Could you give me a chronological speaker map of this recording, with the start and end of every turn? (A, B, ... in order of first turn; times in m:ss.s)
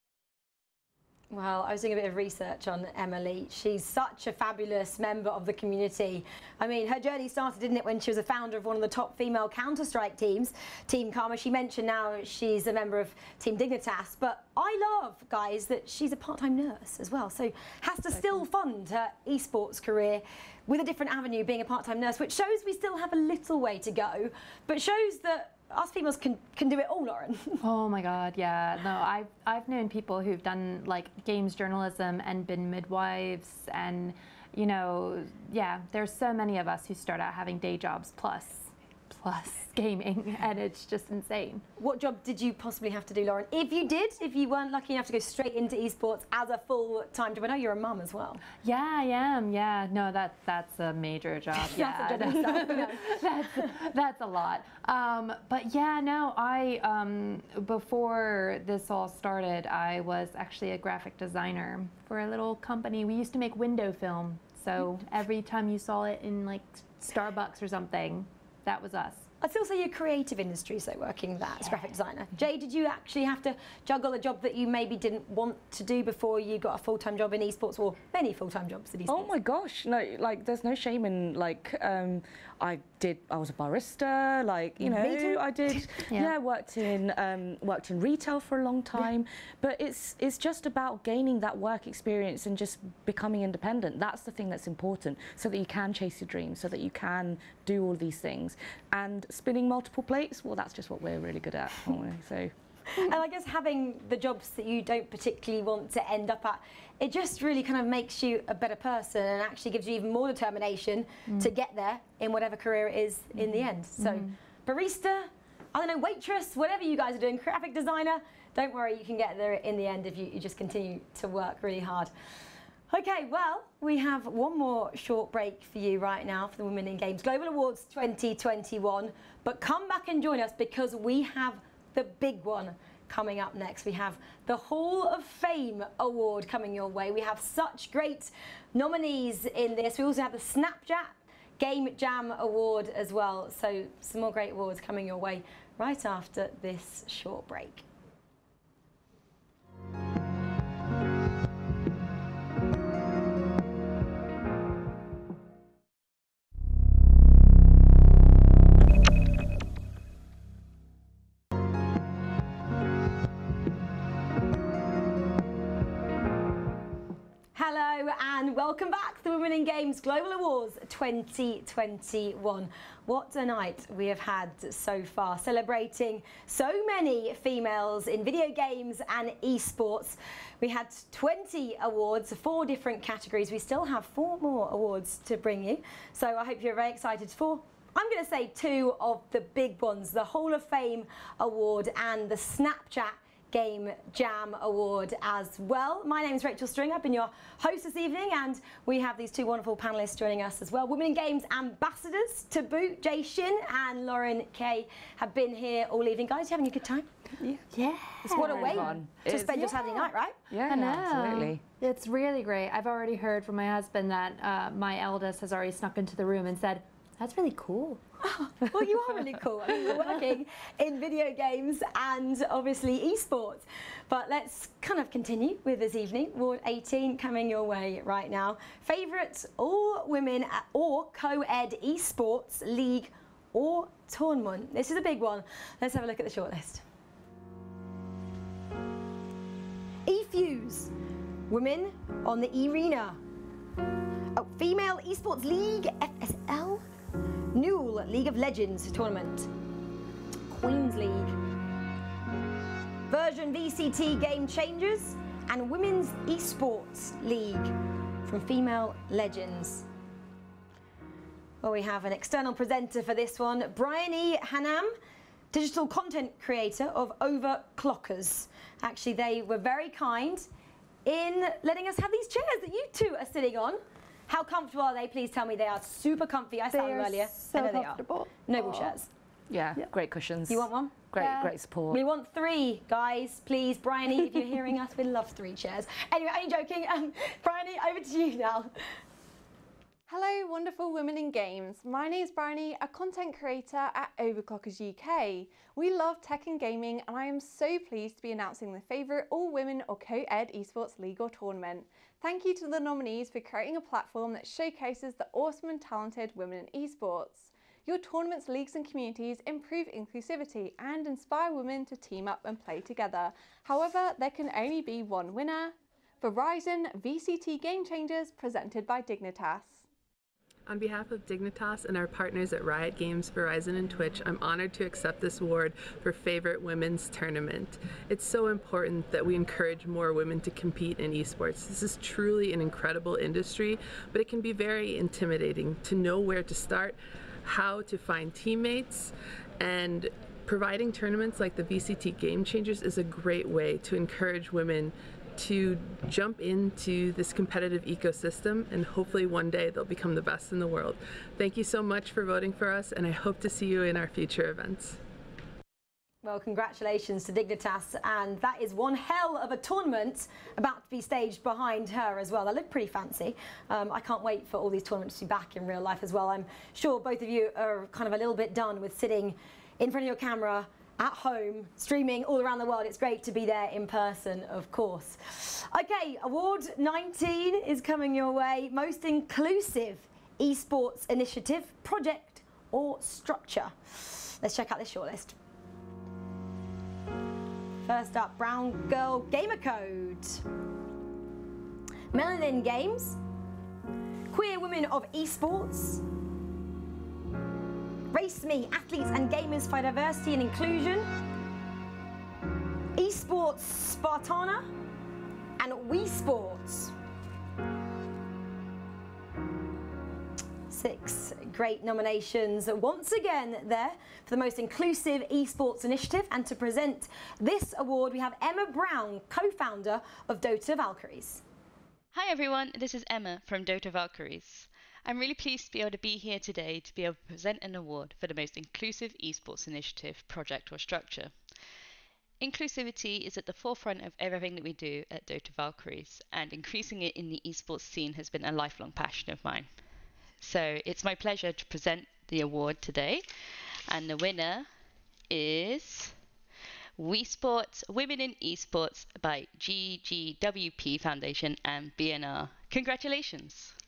0:01.3-0:27.6 A
0:27.6-0:41.6 B
0:41.8-0:48.4 A
0:48.6-1:09.3 B
0:51.7-0:53.2 A
0:51.8-0:52.7 C
1:09.4-1:19.3 A
1:19.1-1:42.5 C
1:24.9-1:25.4 A
1:42.9-2:02.1 A
1:53.4-1:54.3 B
2:02.9-2:27.8 A
2:47.5-3:27.1 A
3:27.7-3:30.1 B
3:28.2-3:31.6 C
3:28.3-3:30.4 A
3:30.7-3:38.0 B
3:38.2-3:56.8 A
4:00.0-4:00.9 A
4:01.5-4:03.2 A
4:04.3-4:06.8 A
4:07.5-4:09.5 A
4:10.5-4:11.3 A
4:13.1-4:17.7 A
4:18.2-4:19.8 A
4:21.6-4:24.9 A
4:25.5-4:30.5 A
4:31.0-4:39.1 A
4:36.7-4:38.9 B
4:39.5-4:42.0 C
4:40.5-4:41.0 A
4:41.2-4:41.5 B
4:41.9-4:48.7 A
4:50.1-5:19.8 D
5:20.6-5:55.0 E
5:56.2-6:25.3 A
6:27.8-6:30.4 A
6:32.1-6:33.2 A
6:34.3-6:36.0 A
6:38.1-6:41.1 A
6:42.9-6:44.7 A
6:45.6-6:46.9 A
6:50.7-7:01.4 A
7:02.1-7:11.4 F
7:12.4-7:19.8 F
7:20.4-7:23.2 F
7:23.9-7:24.7 F
7:25.3-7:26.1 F
7:27.0-7:33.8 F